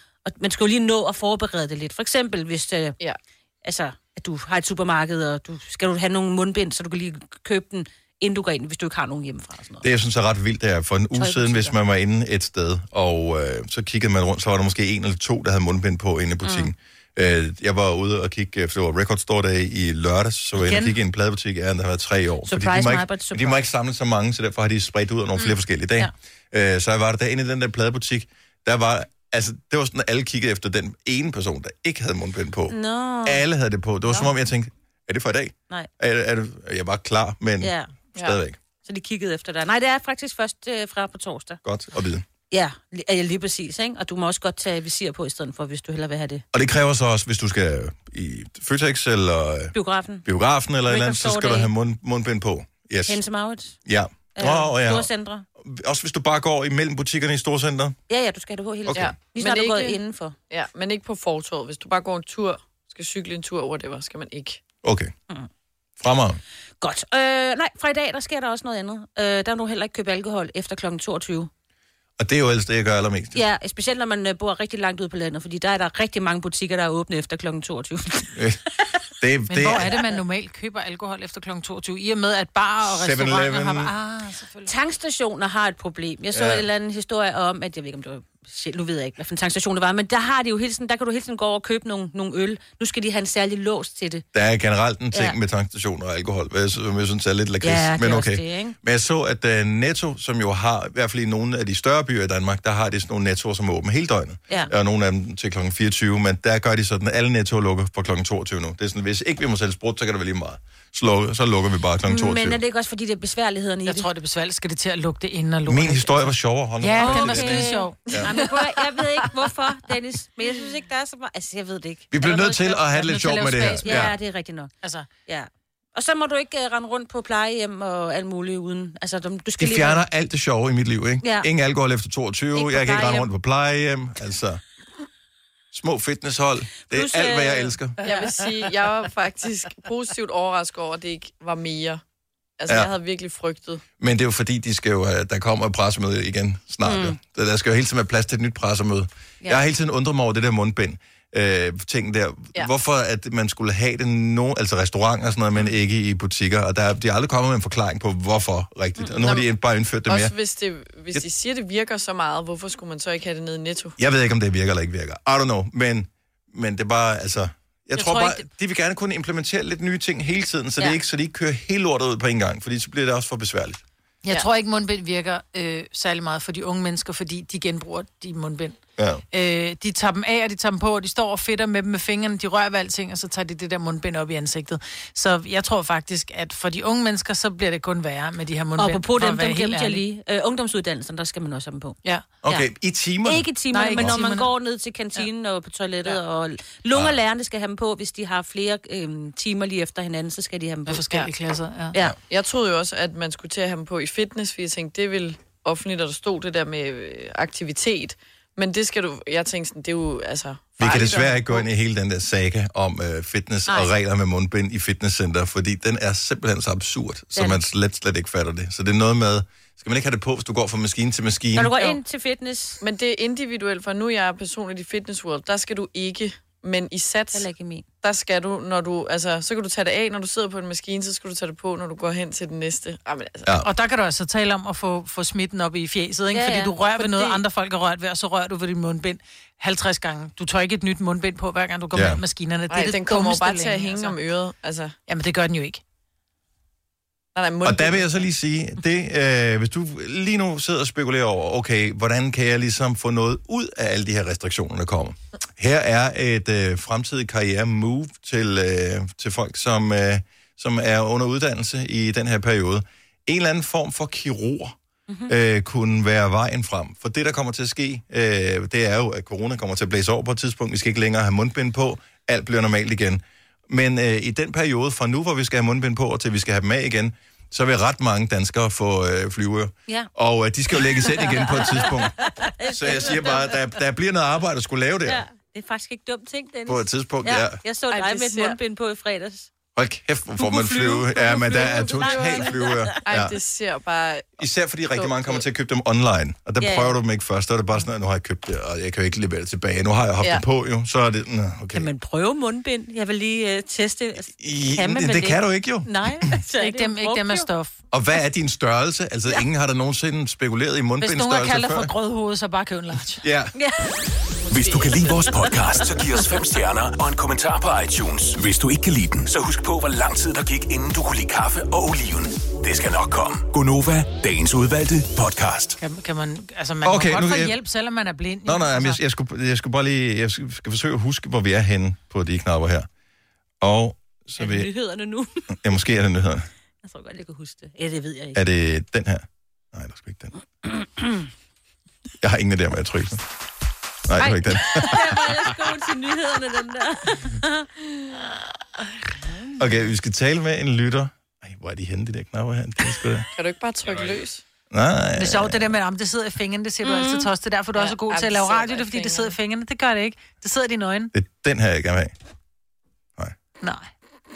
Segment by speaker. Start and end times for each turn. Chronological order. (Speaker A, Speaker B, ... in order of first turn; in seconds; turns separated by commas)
Speaker A: 0.2-3.0, Speaker A: 3.6-9.8, Speaker B: 9.8-38.6, Speaker A: 11.1-11.8, Speaker A: 16.4-16.7, Speaker A: 20.6-21.0, Speaker A: 22.4-23.6, Speaker A: 32.7-33.4, Speaker A: 37.6-37.9, Speaker A: 38.8-41.6, Speaker B: 41.6-42.2, Speaker A: 42.5-46.4, Speaker B: 46.5-53.2, Speaker A: 49.7-50.2, Speaker A: 50.9-51.7, Speaker A: 53.1-53.8, Speaker B: 53.8-58.0, Speaker A: 54.4-55.4, Speaker A: 58.1-60.4, Speaker B: 58.9-59.1, Speaker C: 58.9-60.0, Speaker C: 60.5-64.6, Speaker B: 64.8-65.1, Speaker B: 66.0-66.4, Speaker A: 66.8-71.5, Speaker B: 72.2-73.4, Speaker A: 73.3-78.4, Speaker B: 78.3-80.0, Speaker D: 79.5-84.7, Speaker B: 82.8-83.9, Speaker A: 84.7-94.2, Speaker B: 86.3-86.7, Speaker B: 94.3-112.6, Speaker A: 97.6-98.7, Speaker A: 112.0-114.1, Speaker D: 113.8-118.0, Speaker B: 115.7-118.3, Speaker A: 117.0-122.8, Speaker C: 118.1-118.7, Speaker B: 122.1-124.2, Speaker D: 122.8-124.1, Speaker A: 123.7-124.7, Speaker D: 124.8-125.1, Speaker A: 125.3-130.0, Speaker B: 129.6-134.6, Speaker A: 131.2-131.5, Speaker A: 132.5-133.3, Speaker B: 135.7-138.0, Speaker A: 136.9-138.3, Speaker C: 138.0-142.0, Speaker C: 142.6-143.8, Speaker B: 142.7-142.9, Speaker B: 144.0-160.3, Speaker A: 146.8-147.2, Speaker C: 159.1-159.5, Speaker C: 160.1-163.9, Speaker B: 164.0-173.8, Speaker D: 167.9-168.4, Speaker D: 174.2-178.8, Speaker B: 179.0-179.2, Speaker D: 179.3-190.0, Speaker A: 188.8-192.7, Speaker B: 192.4-194.2, Speaker A: 193.2-201.2, Speaker D: 193.7-194.5, Speaker D: 200.9-201.9, Speaker C: 202.3-211.7, Speaker B: 210.8-221.9, Speaker A: 213.7-213.9, Speaker A: 217.3-217.6, Speaker A: 221.5-222.8, Speaker C: 222.8-227.5, Speaker A: 227.3-227.8, Speaker C: 228.0-233.5, Speaker D: 233.6-244.2, Speaker A: 236.3-236.7, Speaker C: 237.0-237.4, Speaker B: 241.9-242.2, Speaker C: 242.7-244.9, Speaker D: 245.1-245.8, Speaker C: 247.3-248.2, Speaker B: 247.6-264.7, Speaker B: 265.3-285.2, Speaker A: 280.9-283.6, Speaker A: 285.0-289.5, Speaker B: 286.7-287.6, Speaker C: 287.9-288.6, Speaker B: 289.7-293.4, Speaker A: 290.4-293.0, Speaker C: 293.0-294.4, Speaker B: 294.4-301.9, Speaker C: 294.9-295.4, Speaker A: 296.6-297.0, Speaker A: 301.7-307.5, Speaker B: 304.2-306.3, Speaker D: 306.6-307.7, Speaker B: 307.9-311.9, Speaker D: 311.0-313.2, Speaker B: 313.2-313.5, Speaker A: 313.5-314.0, Speaker C: 314.5-315.5, Speaker E: 314.5-325.8, Speaker D: 325.8-329.0, Speaker B: 326.8-327.6, Speaker B: 328.4-332.9, Speaker B: 333.6-334.7, Speaker A: 334.4-335.5, Speaker B: 335.5-336.5, Speaker A: 336.8-338.4, Speaker B: 338.3-340.3, Speaker A: 340.7-341.2, Speaker B: 342.2-343.2, Speaker B: 344.1-345.6, Speaker A: 344.1-347.7, Speaker A: 349.2-349.6, Speaker B: 349.6-353.3, Speaker C: 353.4-354.4, Speaker B: 354.7-355.8, Speaker D: 355.1-361.1, Speaker A: 356.8-357.3, Speaker C: 357.8-359.3, Speaker B: 361.1-362.1, Speaker D: 363.6-363.9